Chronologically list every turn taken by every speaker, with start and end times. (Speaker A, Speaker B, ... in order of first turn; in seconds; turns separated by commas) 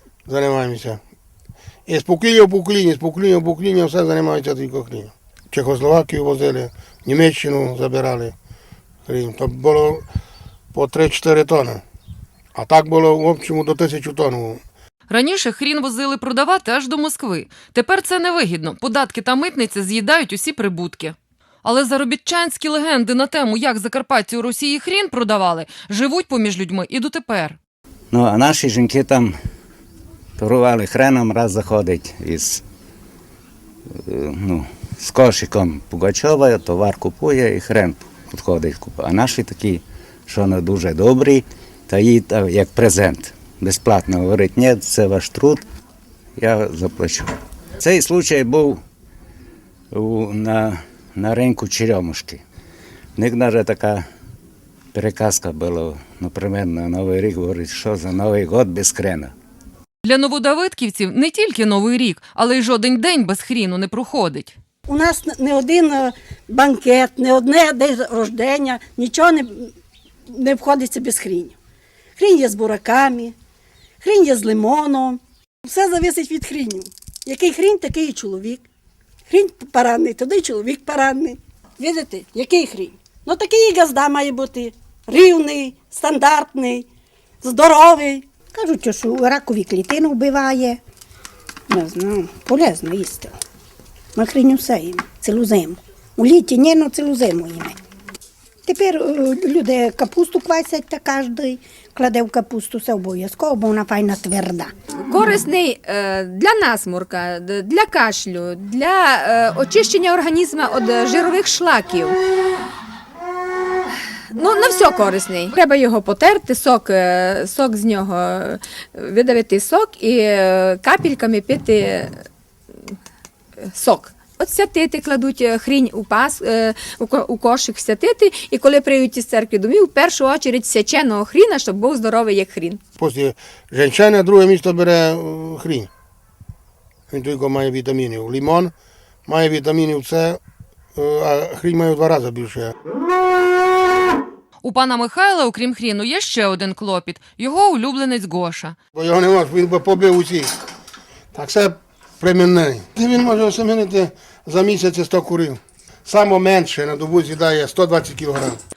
Speaker A: 0.3-1.0, Speaker A: 1.9-8.3, Speaker A: 9.1-10.0, Speaker A: 10.7-11.8, Speaker A: 12.6-14.6, Speaker B: 15.1-27.6, Speaker C: 28.1-29.3, Speaker C: 30.4-32.6, Speaker C: 34.0-45.6, Speaker C: 46.4-47.3, Speaker C: 47.8-48.8, Speaker C: 49.9-52.4, Speaker C: 53.2-54.0, Speaker C: 54.9-59.3, Speaker B: 60.0-64.5, Speaker D: 64.9-69.7, Speaker D: 70.3-71.6, Speaker D: 72.2-73.3, Speaker D: 74.0-78.7, Speaker D: 79.3-86.9, Speaker D: 87.4-88.3, Speaker E: 88.5-90.8, Speaker E: 91.7-93.3, Speaker E: 94.2-97.8, Speaker E: 98.7-104.7, Speaker F: 105.0-112.2, Speaker F: 114.3-122.2, Speaker F: 123.7-132.8, Speaker A: 133.0-135.9, Speaker A: 137.1-138.7, Speaker A: 139.3-140.4, Speaker A: 140.9-142.8, Speaker B: 144.6-148.8, Speaker A: 148.9-150.5, Speaker A: 151.3-158.6